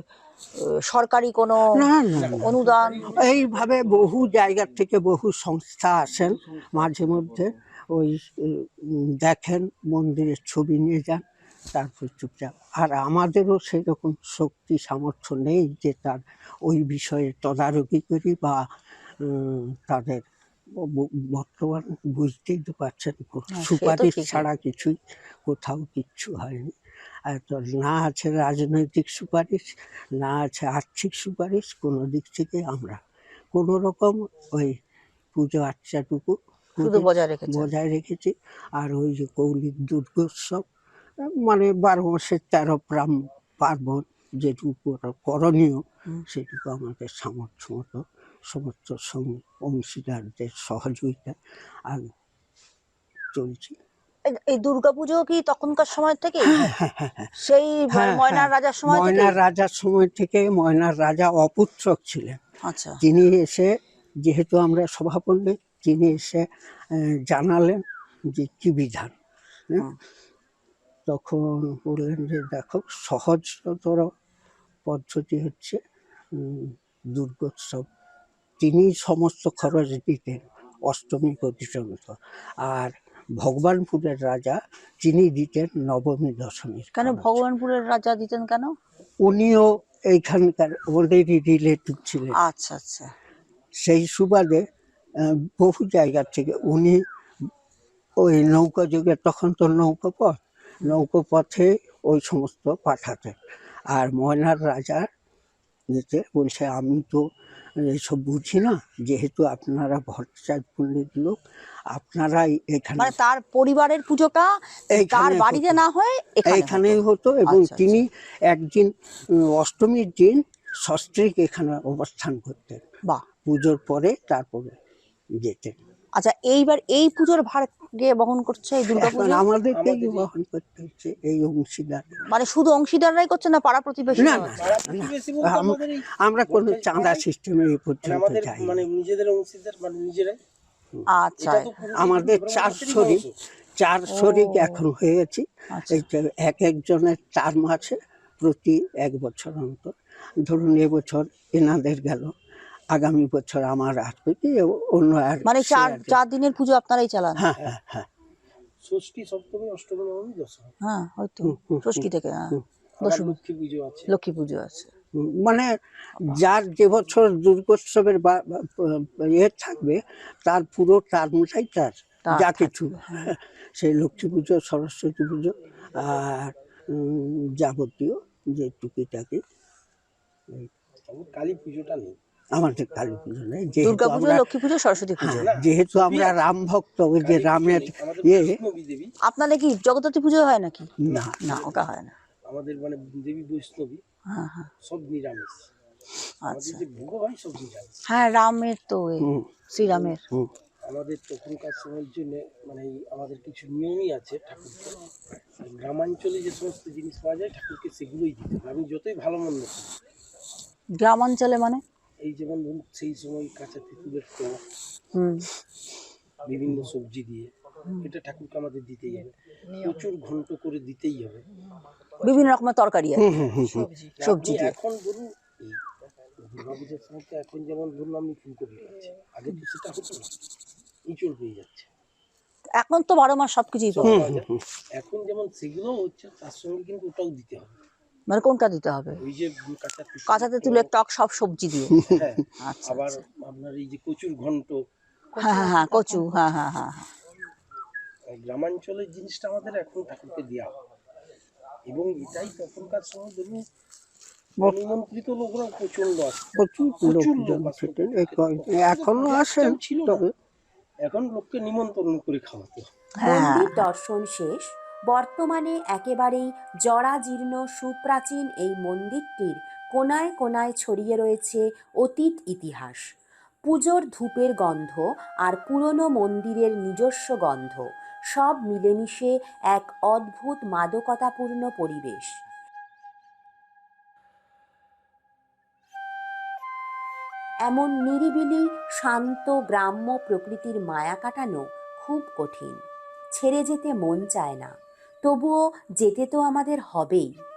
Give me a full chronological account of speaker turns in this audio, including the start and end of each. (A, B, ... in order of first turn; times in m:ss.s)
0:00.9-0:03.1 A
0:01.7-0:18.7 B
0:02.1-0:03.4 C
0:19.2-0:20.2 B
0:20.8-0:26.7 B
0:23.5-0:24.5 A
0:27.3-0:33.0 B
0:33.5-0:34.8 B
0:35.3-0:40.6 B
0:36.8-0:37.7 A
0:41.2-0:52.1 B
0:53.3-0:53.8 B
0:54.3-0:56.7 A
0:56.4-0:57.4 B
0:57.4-0:59.4 A
0:57.9-1:02.4 B
1:02.6-1:03.0 A
1:03.0-1:03.7 B
1:04.2-1:07.8 B
1:08.3-1:09.1 B
1:11.1-1:14.1 B
1:14.8-1:15.8 B
1:16.3-1:17.8 B
1:18.6-1:27.4 B
1:27.0-1:28.7 A
1:29.2-1:32.4 B
1:32.4-1:33.1 A
1:33.8-1:34.6 B
1:35.2-1:37.0 B
1:38.2-1:43.4 B
1:43.9-1:45.1 B
1:45.9-1:47.2 B
1:47.8-1:51.4 B
1:51.9-1:53.1 B
1:53.0-1:58.0 A
1:54.9-1:55.8 B
1:56.4-2:02.8 B
2:03.4-2:04.8 B
2:05.4-2:05.8 B
2:06.2-2:09.4 A
2:08.9-2:12.2 B
2:09.7-2:10.3 C
2:12.3-2:14.6 A
2:14.1-2:18.8 B
2:14.3-2:17.2 C
2:18.0-2:20.4 C
2:21.1-2:21.7 A
2:21.4-2:23.3 C
2:21.9-2:23.2 B
2:23.8-2:32.3 B
2:24.1-2:24.8 A
2:25.7-2:26.1 A
2:32.9-2:36.2 B
2:35.4-2:37.4 A
2:37.3-2:38.1 B
2:38.8-2:40.7 C
2:40.8-2:43.4 A
2:41.4-2:42.6 B
2:43.0-2:44.1 C
2:44.1-2:44.9 A
2:45.1-2:59.4 B
2:52.2-2:53.2 A
3:01.1-3:02.2 C
3:02.5-3:04.5 B
3:03.8-3:05.4 A
3:05.2-3:08.6 B
3:05.3-3:06.4 C
3:07.2-3:09.1 C
3:09.2-3:12.1 A
3:11.0-3:11.4 B
3:11.1-3:11.8 C
3:12.5-3:14.0 C
3:14.3-3:14.7 A
3:14.8-3:15.7 C
3:16.4-3:16.8 A
3:16.5-3:18.0 C
3:18.1-3:20.2 A
3:19.2-3:19.6 B
3:20.8-3:25.0 C
3:25.6-3:29.9 C
3:31.0-3:31.8 A
3:32.2-3:34.6 C
3:35.1-3:35.5 A
3:36.4-3:41.4 C
3:42.2-3:43.3 A
3:43.2-3:44.0 B
3:44.1-3:45.8 C
3:44.2-3:44.7 A
3:46.4-3:50.3 C
3:51.1-3:51.9 C
3:52.8-3:54.3 A
3:53.9-3:57.8 C
3:54.0-3:54.6 B
3:58.3-3:59.2 A
3:59.2-4:00.9 C
4:00.3-4:03.2 A
4:01.9-4:02.2 B
4:02.1-4:04.8 C
4:05.4-4:07.1 A
4:08.3-4:10.8 C
4:11.9-4:13.6 C
4:14.6-4:20.2 C
4:16.5-4:20.3 B
4:21.0-4:22.9 C
4:23.2-4:23.8 A
4:23.2-4:33.0 D
4:33.7-4:42.4 D
4:47.7-4:52.8 D
4:53.4-4:54.7 D
4:55.2-4:57.3 D